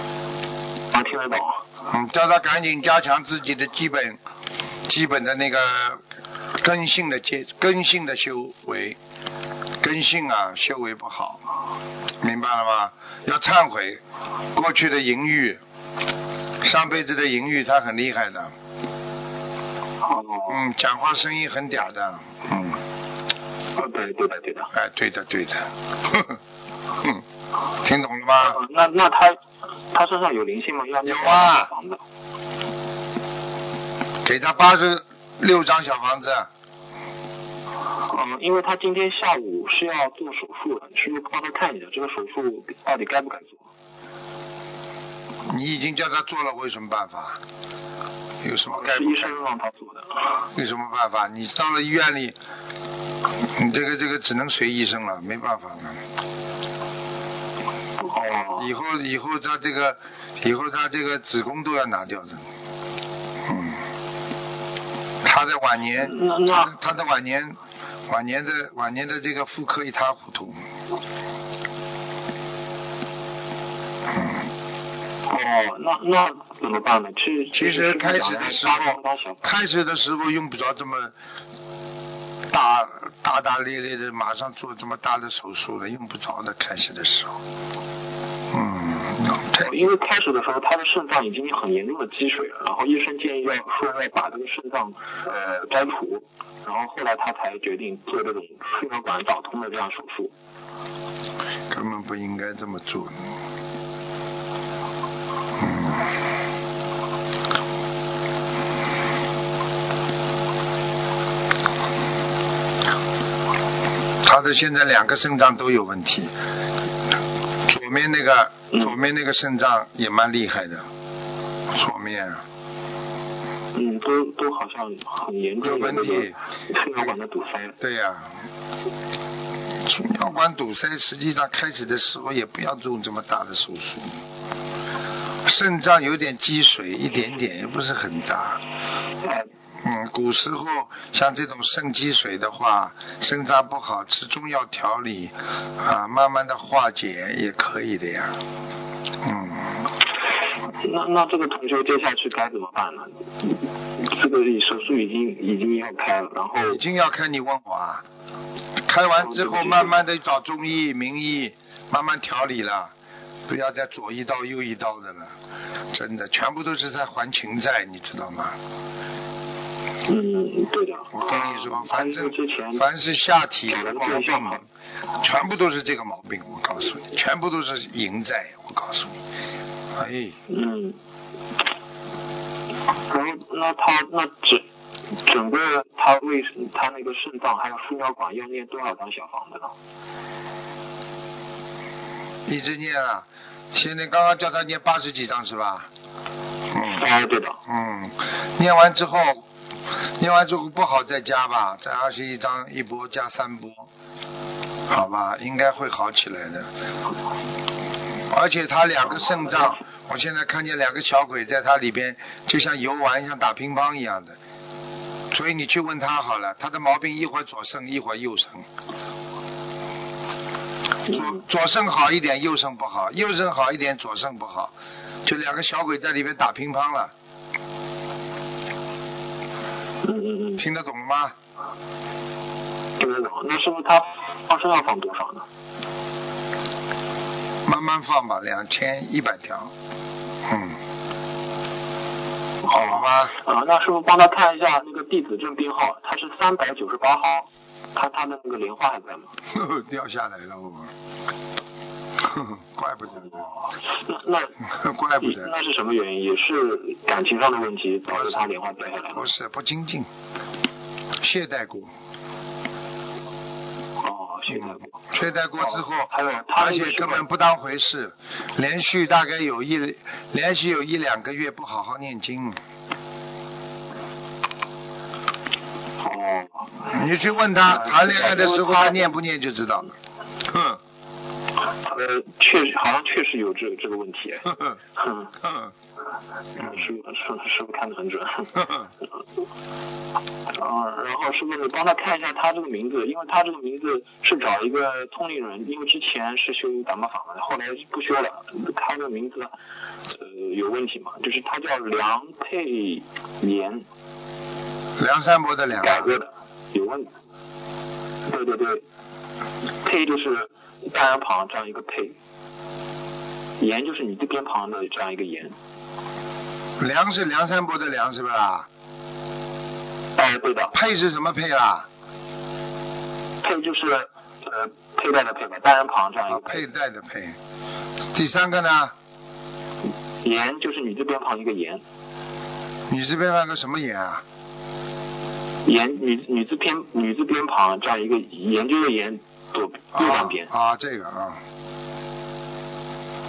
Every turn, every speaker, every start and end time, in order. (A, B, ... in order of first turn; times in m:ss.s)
0:00.9-0:01.6 A
0:01.9-0:04.2 B
0:04.9-0:06.0 B
0:06.6-0:09.0 B
0:09.8-0:11.4 B
0:12.2-0:14.0 B
0:14.5-0:15.6 B
0:16.6-0:18.5 B
0:20.0-0:20.6 A
0:20.5-0:22.8 B
0:23.8-0:24.7 A
0:24.7-0:26.4 B
0:27.8-0:28.6 B
0:28.4-0:29.4 A
0:29.9-0:32.0 A
0:31.0-0:31.7 B
0:34.2-0:36.5 B
0:38.0-0:43.6 A
0:45.4-0:47.4 B
0:48.4-0:49.4 B
0:48.7-0:50.5 A
0:50.5-0:52.4 B
0:53.4-0:56.0 B
0:58.0-0:58.7 A
0:58.6-1:02.4 B
1:03.4-1:03.8 B
1:05.2-1:10.6 B
1:06.0-1:06.7 A
1:15.3-1:19.4 A
1:17.5-1:21.1 B
1:22.5-1:27.4 B
1:28.5-1:29.9 B
1:29.6-1:40.3 A
1:41.7-1:43.3 B
1:45.6-1:46.1 B
1:54.2-1:56.3 B
1:57.6-2:00.9 B
2:01.7-2:02.4 B
2:03.7-2:07.8 A
2:05.6-2:06.4 B
2:07.8-2:08.4 B
2:09.8-2:14.2 B
2:15.4-2:18.6 B
2:19.2-2:19.5 A
2:19.8-2:28.4 B
2:29.2-2:29.8 B
2:30.8-2:36.8 A
2:36.7-2:38.0 B
2:38.9-2:42.9 B
2:39.2-2:40.0 A
2:43.5-2:45.3 B
2:45.9-2:48.6 B
2:50.1-2:52.8 A
2:51.1-2:54.6 B
2:53.7-2:54.6 A
2:55.2-2:59.2 B
2:59.9-3:00.4 B
3:00.5-3:01.0 A
3:03.1-3:04.6 A
3:05.2-3:09.7 A
3:12.5-3:15.9 B
3:16.7-3:17.0 B
3:16.8-3:17.6 A
3:17.7-3:19.4 B
3:20.2-3:23.9 B
3:24.9-3:26.7 B
3:28.3-3:34.4 B
3:35.3-3:38.6 B
3:41.1-3:44.7 B
3:45.2-3:47.1 B
3:50.0-3:50.6 A
3:50.6-3:51.3 B
3:53.0-3:55.4 A
3:57.6-3:59.7 B
4:00.4-4:00.8 B
4:02.6-4:09.3 A
4:02.7-4:03.4 B
4:09.5-4:10.9 B
4:12.2-4:13.5 B
4:13.3-4:14.6 A
4:14.7-4:15.5 B
4:15.2-4:19.3 A
4:19.1-4:20.1 B
4:21.2-4:21.9 B
4:24.0-4:25.0 A
4:24.5-4:32.6 B
4:25.6-4:27.3 A
4:36.0-4:36.8 A
4:36.8-4:39.9 B
4:37.6-4:39.1 A
4:40.4-4:40.8 B
4:41.8-4:45.3 A
4:45.4-4:45.7 B
4:46.6-4:48.9 A
4:50.5-4:59.5 A
5:00.1-5:03.9 A
5:05.0-5:06.1 B
5:05.8-5:07.1 A
5:08.3-5:08.8 A
5:09.8-5:12.2 A
5:13.6-5:15.5 A
5:16.8-5:18.7 B
5:20.2-5:20.7 A
5:20.7-5:21.9 B
5:23.4-5:26.6 A
5:26.3-5:27.4 B
5:28.1-5:28.9 B
5:30.2-5:31.8 A
5:32.9-5:34.2 B
5:35.6-5:40.5 A
5:39.9-5:41.4 B